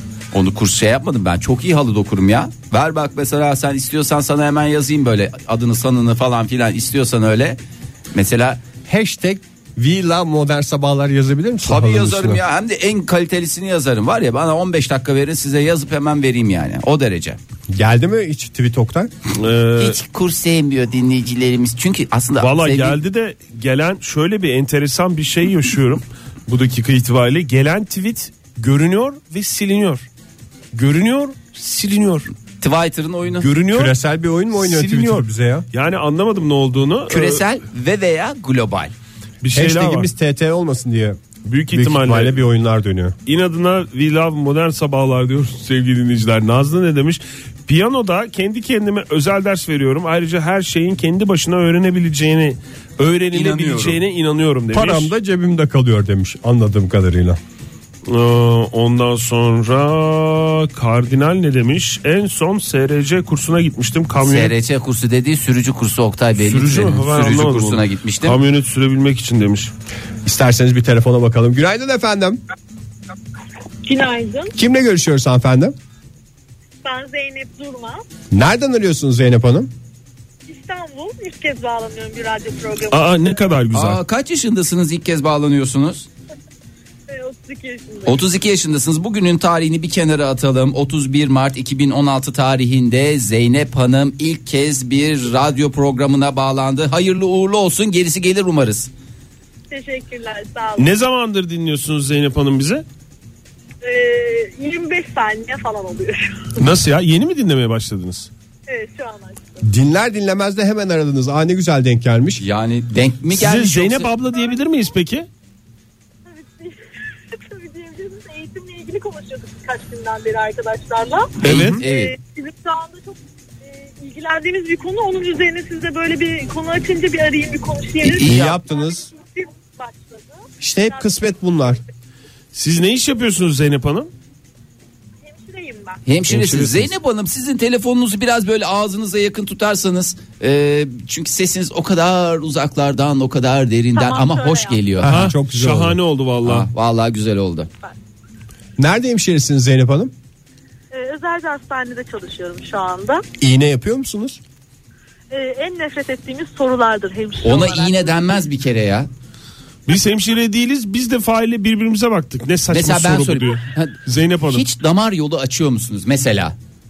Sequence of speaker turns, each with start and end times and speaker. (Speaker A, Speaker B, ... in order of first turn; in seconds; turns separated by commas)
Speaker A: 0.3-7.6, Speaker A: 8.1-8.6, Speaker B: 8.8-12.4, Speaker A: 11.6-17.4, Speaker B: 17.7-19.1, Speaker C: 19.3-20.0, Speaker A: 19.8-23.0, Speaker C: 22.4-30.1, Speaker C: 30.7-32.3, Speaker A: 32.6-33.5, Speaker C: 33.4-33.9, Speaker B: 33.7-35.6, Speaker C: 34.5-37.4, Speaker A: 37.1-38.9, Speaker C: 39.4-40.1, Speaker B: 39.5-41.2, Speaker C: 41.4-42.4, Speaker B: 41.7-43.1, Speaker C: 43.2-55.1, Speaker A: 53.3-54.0, Speaker B: 54.7-57.4, Speaker C: 58.1-64.5, Speaker A: 64.2-68.4, Speaker C: 66.4-69.7, Speaker B: 70.2-72.4, Speaker D: 73.9-74.5, Speaker B: 74.5-75.7, Speaker D: 76.8-78.0, Speaker B: 78.3-79.7, Speaker D: 80.5-83.2, Speaker C: 82.9-84.0, Speaker A: 83.7-86.1, Speaker D: 87.1-88.2, Speaker A: 88.0-98.9, Speaker D: 99.7-100.9, Speaker C: 100.8-102.8, Speaker D: 103.8-106.6, Speaker C: 106.6-108.3, Speaker D: 108.7-109.6, Speaker B: 109.6-112.4, Speaker A: 112.4-114.1, Speaker C: 113.3-115.3, Speaker D: 114.4-114.6, Speaker D: 116.2-116.8, Speaker D: 117.3-130.4, Speaker A: 121.4-122.2, Speaker C: 121.4-121.8, Speaker A: 128.0-128.6, Speaker B: 128.2-129.1, Speaker B: 130.6-131.8, Speaker C: 132.5-134.1, Speaker D: 135.3-136.0, Speaker A: 136.0-145.3, Speaker C: 136.3-136.9, Speaker D: 143.9-144.8, Speaker B: 145.0-146.0, Speaker C: 145.1-146.7, Speaker A: 146.4-147.7, Speaker B: 148.8-150.1, Speaker D: 150.9-153.2, Speaker B: 153.4-154.4, Speaker D: 155.3-158.4, Speaker A: 157.4-159.1, Speaker C: 159.9-164.6, Speaker A: 162.7-164.0, Speaker A: 164.5-166.6